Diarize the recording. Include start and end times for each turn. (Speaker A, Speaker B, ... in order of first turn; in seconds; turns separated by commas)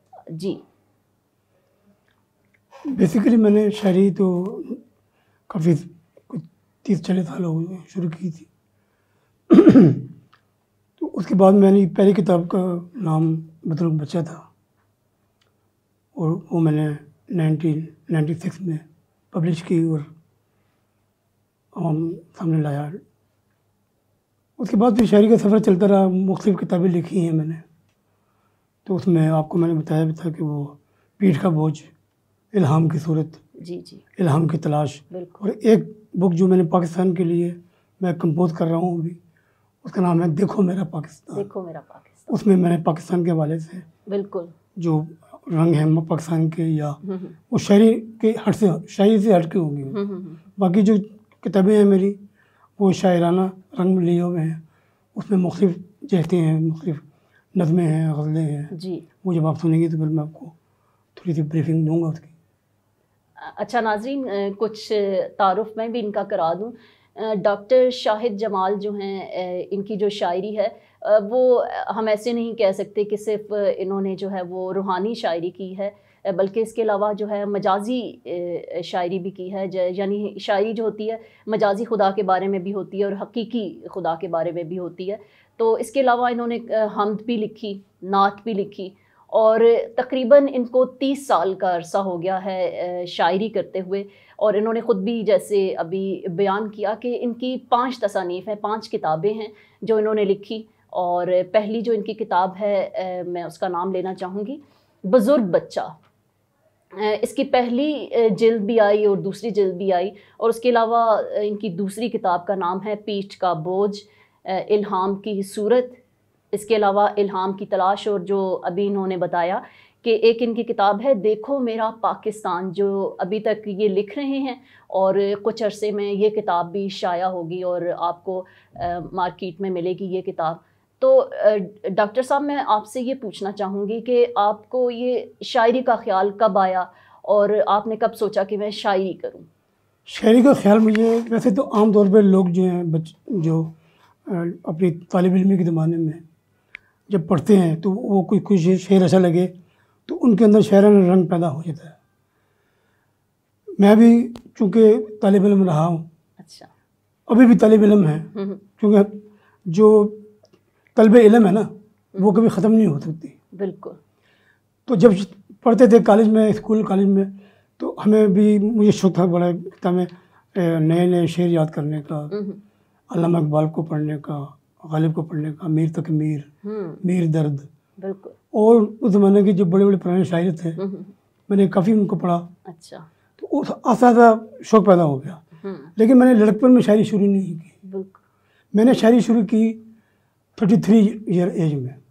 Speaker A: 0.3-0.6, Speaker B: 2.9-4.8, Speaker B: 5.5-8.5, Speaker B: 9.5-10.1, Speaker B: 11.0-14.5, Speaker B: 16.2-20.1, Speaker B: 21.8-23.0, Speaker B: 24.6-27.6, Speaker B: 28.9-31.9, Speaker B: 32.5-33.4, Speaker A: 33.6-34.0, Speaker B: 34.2-39.2, Speaker A: 35.1-35.4, Speaker B: 39.8-41.5, Speaker A: 41.3-42.4, Speaker B: 42.3-43.9, Speaker A: 44.1-44.5, Speaker B: 44.8-47.0, Speaker A: 47.0-47.4, Speaker B: 47.5-50.0, Speaker A: 49.9-50.4, Speaker B: 50.6-52.2, Speaker B: 52.8-54.6, Speaker B: 55.1-57.0, Speaker B: 57.5-60.5, Speaker A: 58.7-59.1, Speaker B: 61.2-62.3, Speaker A: 63.4-105.9, Speaker A: 106.9-116.0, Speaker A: 116.5-139.5, Speaker B: 140.1-143.7, Speaker B: 144.3-146.2, Speaker B: 147.1-149.5, Speaker B: 150.1-152.0, Speaker B: 153.8-156.1, Speaker A: 156.4-156.7, Speaker B: 157.3-160.3, Speaker A: 158.3-158.6, Speaker B: 161.0-163.3, Speaker A: 163.5-164.0, Speaker B: 164.9-172.3, Speaker A: 172.3-172.6, Speaker B: 173.1-176.5, Speaker A: 176.6-177.0, Speaker B: 177.0-177.7, Speaker A: 178.0-178.4, Speaker B: 178.5-180.8, Speaker A: 180.8-181.1, Speaker B: 181.5-182.5, Speaker A: 182.7-183.1, Speaker B: 183.4-185.4, Speaker A: 185.6-185.9, Speaker B: 186.0-187.7, Speaker A: 187.8-188.2, Speaker B: 188.7-189.8, Speaker B: 190.6-192.0